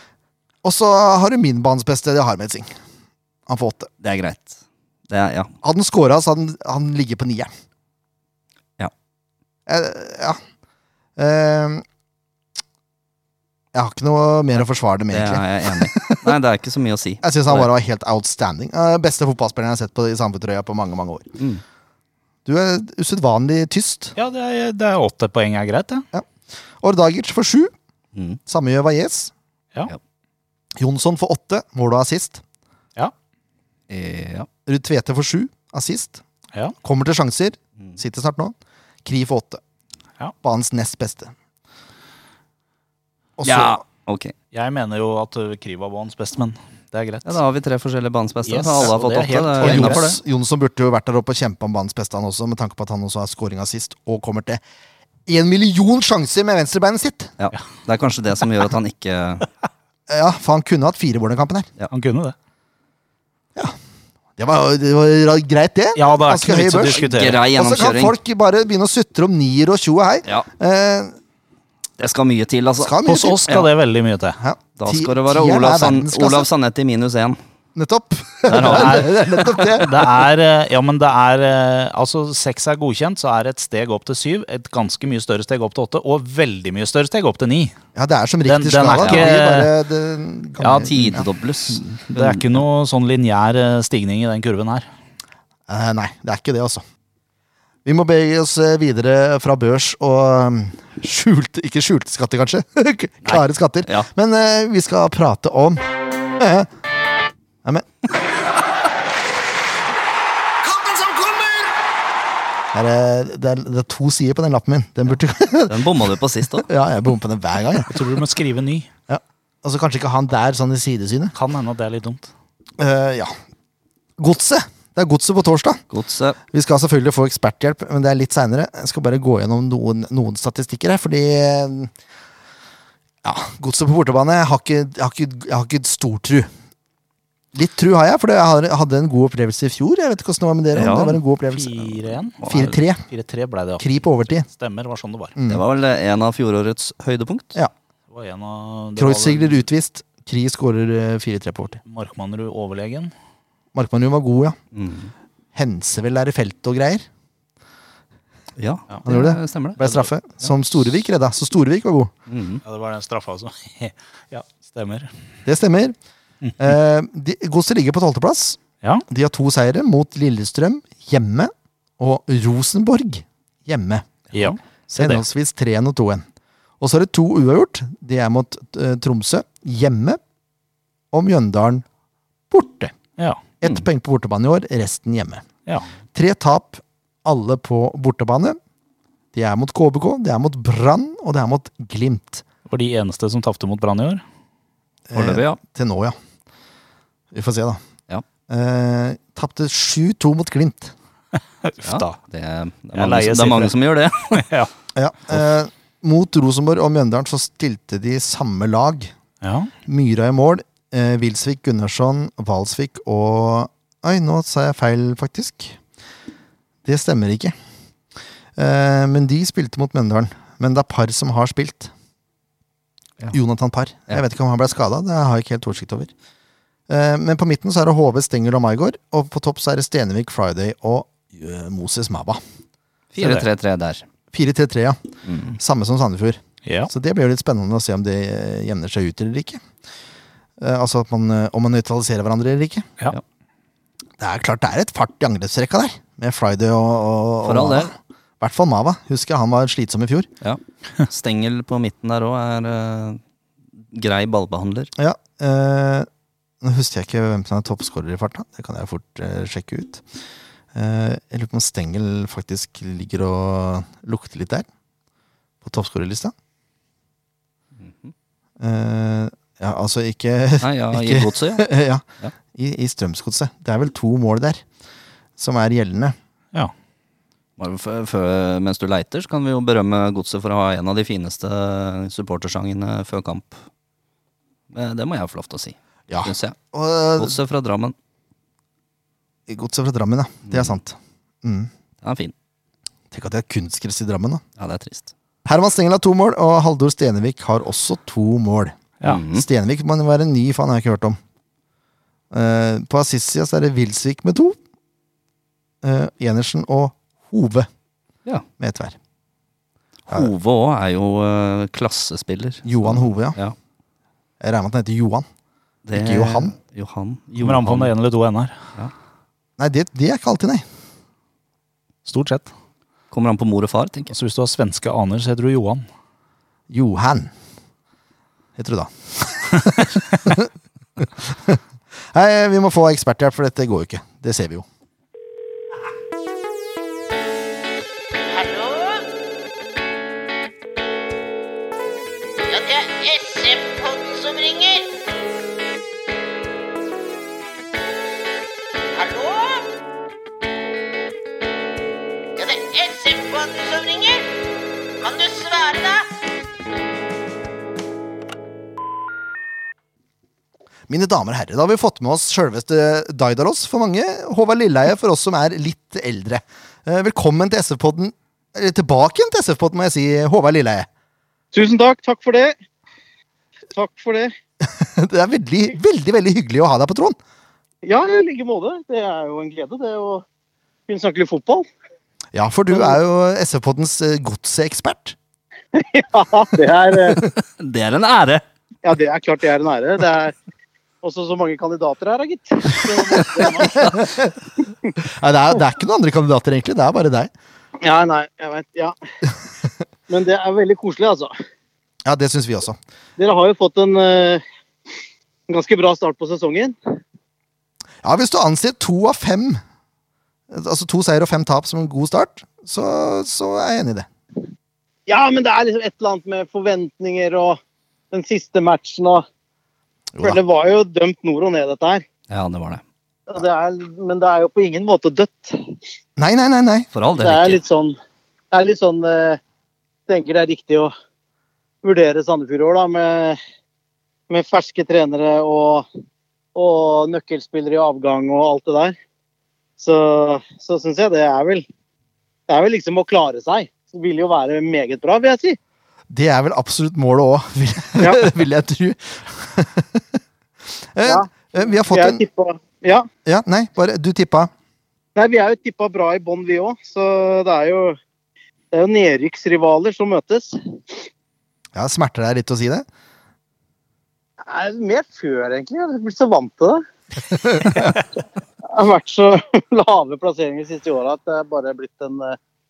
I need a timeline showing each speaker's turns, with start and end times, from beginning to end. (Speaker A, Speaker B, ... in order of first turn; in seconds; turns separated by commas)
Speaker A: 0.6-2.7, Speaker A: 3.5-3.9, Speaker B: 4.0-4.6, Speaker B: 5.1-5.5, Speaker A: 5.6-7.5, Speaker A: 9.7-10.4, Speaker A: 11.2-11.8, Speaker A: 13.7-16.4, Speaker B: 15.1-17.7, Speaker A: 17.2-21.3, Speaker A: 22.4-24.1, Speaker C: 24.1-26.0, Speaker A: 26.8-27.7, Speaker A: 28.5-29.3, Speaker A: 30.8-32.4, Speaker B: 33.9-34.5, Speaker A: 34.7-36.2, Speaker A: 36.8-39.6, Speaker A: 40.4-41.3, Speaker A: 43.4-43.8, Speaker B: 43.4-44.3, Speaker C: 44.5-47.4, Speaker B: 47.2-50.2, Speaker C: 48.4-50.1, Speaker A: 49.6-54.6, Speaker A: 55.2-57.3, Speaker B: 57.4-59.5, Speaker A: 60.1-61.7, Speaker C: 61.9-62.3, Speaker A: 64.4-71.1, Speaker C: 65.9-67.4, Speaker B: 66.9-68.1, Speaker B: 72.0-73.7, Speaker A: 72.8-73.6, Speaker C: 73.0-74.4, Speaker A: 74.4-76.5, Speaker B: 74.8-77.4, Speaker A: 77.7-79.9, Speaker B: 78.5-79.8, Speaker C: 78.5-79.1, Speaker C: 79.7-87.7, Speaker A: 87.9-91.3, Speaker C: 88.4-89.7, Speaker B: 89.0-89.3, Speaker B: 90.6-92.6, Speaker C: 90.6-90.9, Speaker C: 92.1-94.9, Speaker A: 95.7-96.8, Speaker A: 97.8-106.7, Speaker A: 112.7-115.8, Speaker B: 115.7-116.7, Speaker A: 116.6-117.9, Speaker C: 117.9-118.9, Speaker A: 119.1-121.3, Speaker C: 121.3-122.3, Speaker A: 122.8-123.3, Speaker A: 124.2-125.8, Speaker B: 125.9-126.4, Speaker A: 126.5-131.9, Speaker A: 133.2-136.5, Speaker A: 137.5-143.0, Speaker B: 140.7-141.2, Speaker C: 141.5-142.5, Speaker B: 142.4-142.7, Speaker C: 143.1-145.3, Speaker A: 143.8-144.4, Speaker A: 145.3-145.6, Speaker B: 145.5-147.6, Speaker C: 148.1-149.7, Speaker A: 149.0-151.8, Speaker C: 151.8-153.1, Speaker A: 153.7-154.6, Speaker B: 154.7-155.1, Speaker A: 155.5-157.1, Speaker B: 158.6-160.0, Speaker A: 159.1-162.1, Speaker B: 162.3-162.6, Speaker C: 162.6-165.1, Speaker A: 165.4-165.9, Speaker A: 166.6-176.2, Speaker C: 174.3-175.2, Speaker A: 176.8-180.2, Speaker A: 181.1-181.8, Speaker A: 182.5-182.9, Speaker A: 183.6-185.4, Speaker A: 186.1-188.6, Speaker A: 189.3-192.4, Speaker C: 192.7-194.2, Speaker A: 195.1-196.2, Speaker B: 195.1-195.6, Speaker A: 197.3-197.8, Speaker A: 198.5-200.9, Speaker C: 201.6-202.2, Speaker B: 201.8-204.4, Speaker C: 202.9-203.7, Speaker C: 204.3-204.7, Speaker A: 204.9-209.1, Speaker C: 209.4-209.7, Speaker A: 209.8-215.8, Speaker A: 216.8-217.5, Speaker A: 218.6-221.9, Speaker A: 223.3-226.1, Speaker A: 226.9-232.4, Speaker B: 233.1-234.0, Speaker C: 233.2-233.4, Speaker A: 234.3-235.0, Speaker B: 235.2-235.5, Speaker A: 235.5-239.6, Speaker C: 236.6-236.9, Speaker A: 240.6-242.9, Speaker A: 244.2-250.3, Speaker B: 247.4-247.9, Speaker B: 250.4-253.2, Speaker B: 253.9-254.9, Speaker A: 255.0-256.1, Speaker A: 256.6-260.0, Speaker A: 260.7-264.6, Speaker A: 265.6-266.3, Speaker B: 267.8-268.1, Speaker A: 268.6-274.6, Speaker B: 270.6-271.6, Speaker A: 275.4-276.1, Speaker B: 277.6-283.6, Speaker B: 284.7-286.6, Speaker A: 286.1-287.4, Speaker B: 287.2-287.9, Speaker A: 289.5-291.7, Speaker B: 290.5-290.7, Speaker B: 292.0-292.3, Speaker A: 293.1-294.4, Speaker B: 294.6-295.1, Speaker A: 295.4-298.8, Speaker B: 299.0-299.4, Speaker A: 299.3-301.2, Speaker A: 302.3-304.6, Speaker A: 305.8-307.7, Speaker A: 308.6-308.9, Speaker B: 310.1-313.5, Speaker A: 312.6-313.4, Speaker A: 314.4-315.2, Speaker B: 315.9-317.9, Speaker A: 315.9-316.5, Speaker C: 317.4-318.6, Speaker A: 319.6-320.6, Speaker C: 322.1-322.5, Speaker B: 323.1-324.1, Speaker C: 324.1-325.8, Speaker A: 326.7-327.3, Speaker A: 328.6-331.6, Speaker A: 332.1-334.6, Speaker D: 338.3-339.0, Speaker D: 342.5-344.9, Speaker D: 348.9-349.7, Speaker D: 352.4-354.2, Speaker D: 355.0-356.1, Speaker A: 360.9-370.9, Speaker E: 371.5-372.5, Speaker E: 373.7-374.3, Speaker A: 374.6-377.2, Speaker E: 377.8-380.2, Speaker E: 380.9-381.6, Speaker A: 382.3-385.1, Speaker E: 385.7-387.2, Speaker B: 387.1-388.4, Speaker E: 388.8-390.3, Speaker E: 391.0-394.1, Speaker A: 393.7-394.4, Speaker A: 395.0-397.3, Speaker E: 397.8-398.9, Speaker E: 400.1-401.3, Speaker A: 402.0-402.8, Speaker E: 403.2-404.4, Speaker E: 405.5-406.7, Speaker A: 408.0-409.6, Speaker A: 410.5-414.1, Speaker E: 415.1-417.6, Speaker E: 418.1-419.2, Speaker A: 420.1-420.4, Speaker E: 420.2-422.0, Speaker B: 422.3-422.8, Speaker E: 423.3-425.7, Speaker A: 426.2-426.9, Speaker B: 426.9-427.6, Speaker E: 427.2-428.0, Speaker E: 428.5-429.4, Speaker E: 430.1-430.9, Speaker E: 431.8-433.4, Speaker E: 434.3-435.9, Speaker E: 436.5-438.9, Speaker E: 439.8-441.6, Speaker E: 442.5-445.6, Speaker A: 446.1-450.1, Speaker A: 450.9-452.2, Speaker E: 451.9-453.1, Speaker A: 453.2-454.5, Speaker E: 455.1-458.0, Speaker E: 458.7-460.9, Speaker A: 461.7-462.9, Speaker E: 464.4-466.8, Speaker A: 467.3-467.9, Speaker E: 467.6-468.0, Speaker E: 468.7-472.4